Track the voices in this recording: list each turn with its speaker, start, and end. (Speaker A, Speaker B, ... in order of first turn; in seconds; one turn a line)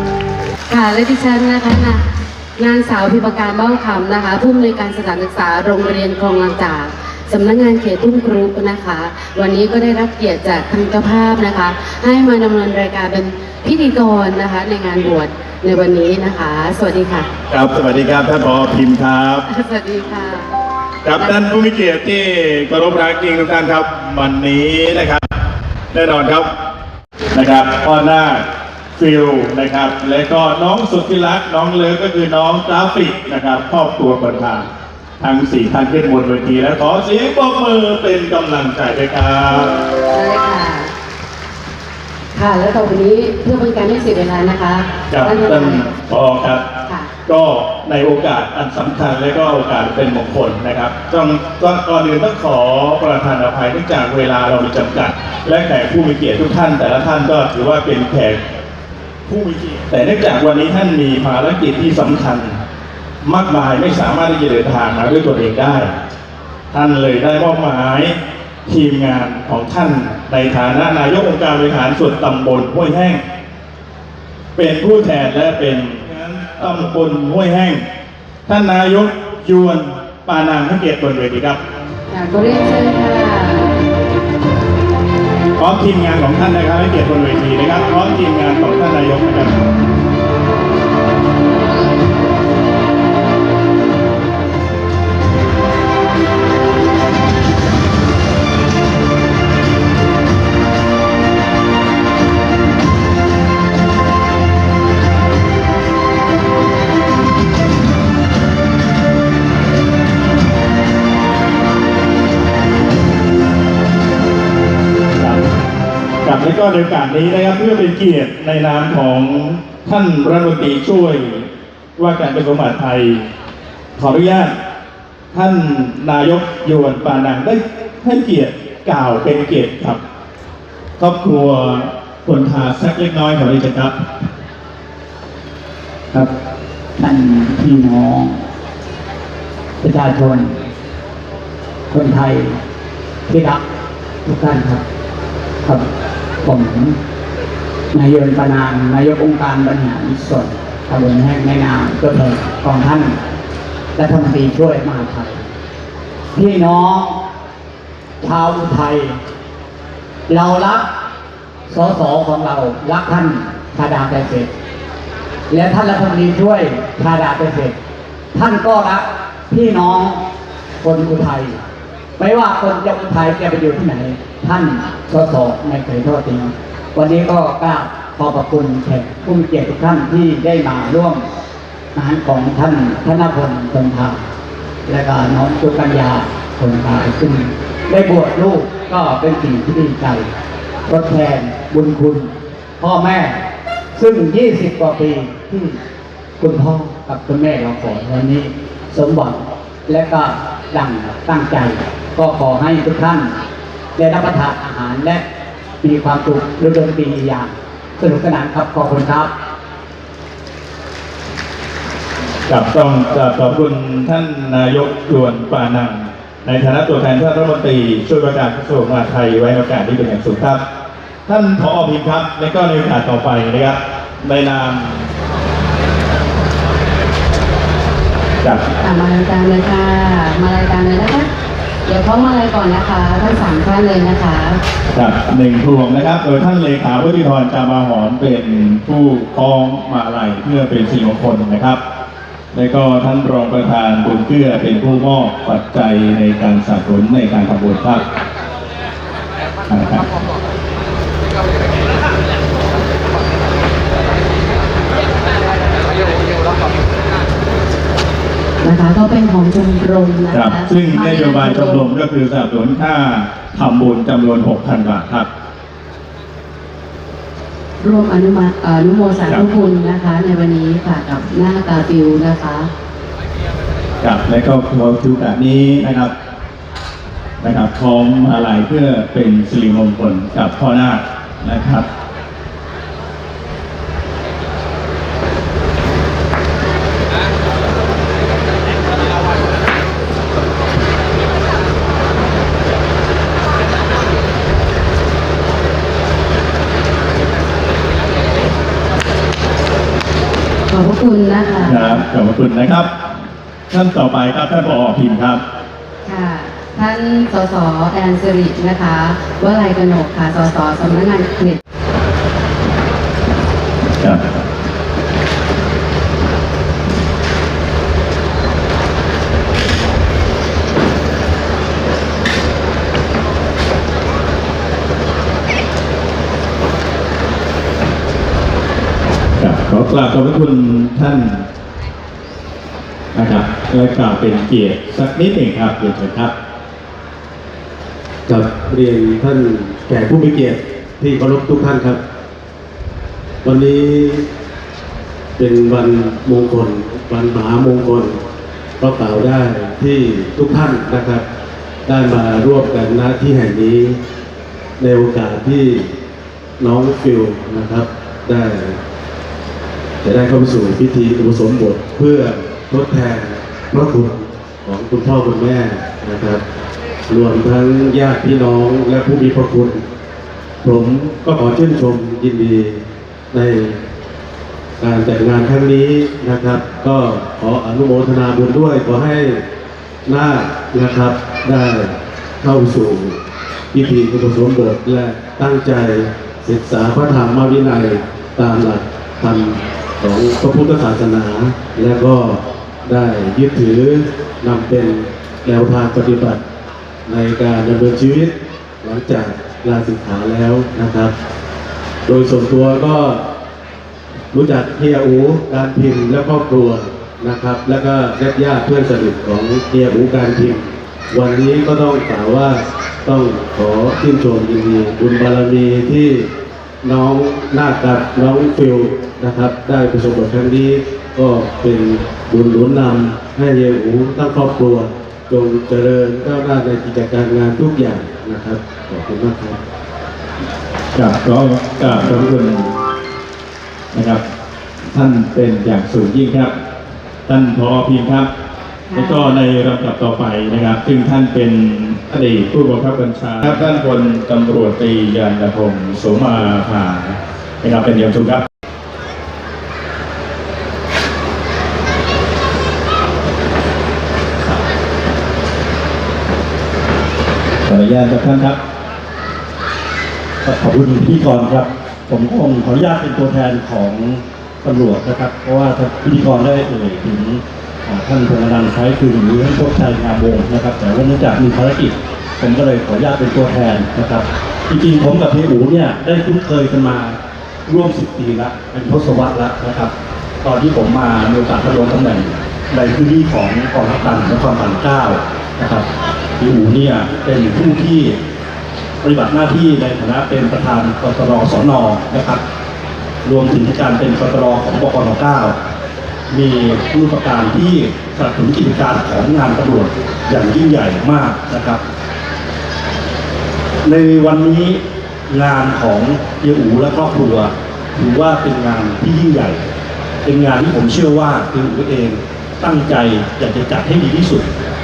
Speaker A: 0.7-2.0
Speaker A: 2.6-17.3
Speaker B: 17.5-19.4
Speaker A: 19.5-20.5
Speaker B: 21.0-25.3
Speaker B: 25.9-26.5
Speaker B: 27.3-28.4
Speaker B: 28.9-34.7
Speaker B: 35.2-39.8
Speaker A: 40.1-40.9
Speaker A: 42.3-45.9
Speaker B: 45.1-46.6
Speaker B: 47.2-58.4
Speaker B: 59.2-62.6
Speaker B: 63.2-65.9
Speaker B: 66.7-73.2
Speaker B: 74.5-77.8
Speaker B: 78.5-81.6
Speaker A: 82.1-83.8
Speaker B: 85.6-89.6
Speaker B: 115.2-115.5
Speaker B: 116.2-123.3
Speaker B: 124.0-124.6
Speaker B: 125.3-130.0
Speaker B: 131.0-134.0
Speaker C: 137.0-138.4
Speaker C: 139.8-140.6
Speaker C: 141.9-142.6
Speaker C: 143.3-143.6
Speaker C: 144.2-144.8
Speaker C: 146.4-147.0
Speaker C: 147.9-153.2
Speaker C: 153.9-155.4
Speaker C: 156.3-157.2
Speaker C: 158.2-159.2
Speaker C: 160.3-160.9
Speaker C: 161.7-164.5
Speaker C: 165.5-167.8
Speaker C: 168.3-170.2
Speaker C: 170.8-171.6
Speaker C: 172.2-181.2
Speaker C: 181.9-184.2
Speaker C: 184.8-190.3
Speaker C: 190.9-193.4
Speaker C: 193.9-195.8
Speaker C: 196.4-203.3
Speaker C: 204.0-205.2
Speaker C: 205.8-209.3
Speaker B: 212.5-220.6
Speaker B: 221.3-225.1
Speaker A: 228.8-231.3
Speaker A: 231.9-234.6
Speaker B: 234.9-241.8
Speaker B: 242.5-248.0
Speaker B: 249.7-250.1
Speaker A: 258.6-261.8
Speaker B: 260.3-265.3
Speaker A: 267.8-272.7
Speaker B: 274.0-276.1
Speaker B: 277.4-281.9
Speaker A: 300.7-302.0
Speaker B: 301.6-303.1
Speaker B: 303.7-305.4
Speaker A: 306.0-311.6
Speaker B: 314.0-314.5
Speaker B: 329.4-331.4
Speaker B: 333.1-336.3
Speaker D: 338.3-342.0
Speaker D: 343.4-344.2
Speaker D: 345.4-348.2
Speaker D: 348.8-351.2
Speaker D: 351.9-354.0
Speaker D: 354.8-355.9
Speaker D: 356.6-358.8
Speaker D: 360.0-366.4
Speaker D: 367.1-369.8
Speaker D: 370.6-373.8
Speaker D: 374.8-379.4
Speaker D: 380.1-383.2
Speaker D: 383.7-396.4
Speaker D: 397.1-401.1
Speaker D: 402.0-403.2
Speaker D: 404.3-416.3
Speaker D: 416.8-429.6
Speaker B: 430.9-432.7
Speaker B: 433.9-434.2
Speaker B: 434.9-436.5
Speaker B: 437.3-438.3
Speaker A: 438.9-439.4
Speaker B: 438.9-448.4
Speaker E: 457.7-458.2
Speaker B: 458.0-458.6
Speaker E: 460.4-479.9
Speaker E: 480.4-485.8
Speaker E: 486.4-488.2
Speaker E: 489.0-492.4
Speaker E: 493.2-495.6
Speaker E: 496.3-501.8
Speaker E: 503.8-509.6
Speaker E: 510.2-514.5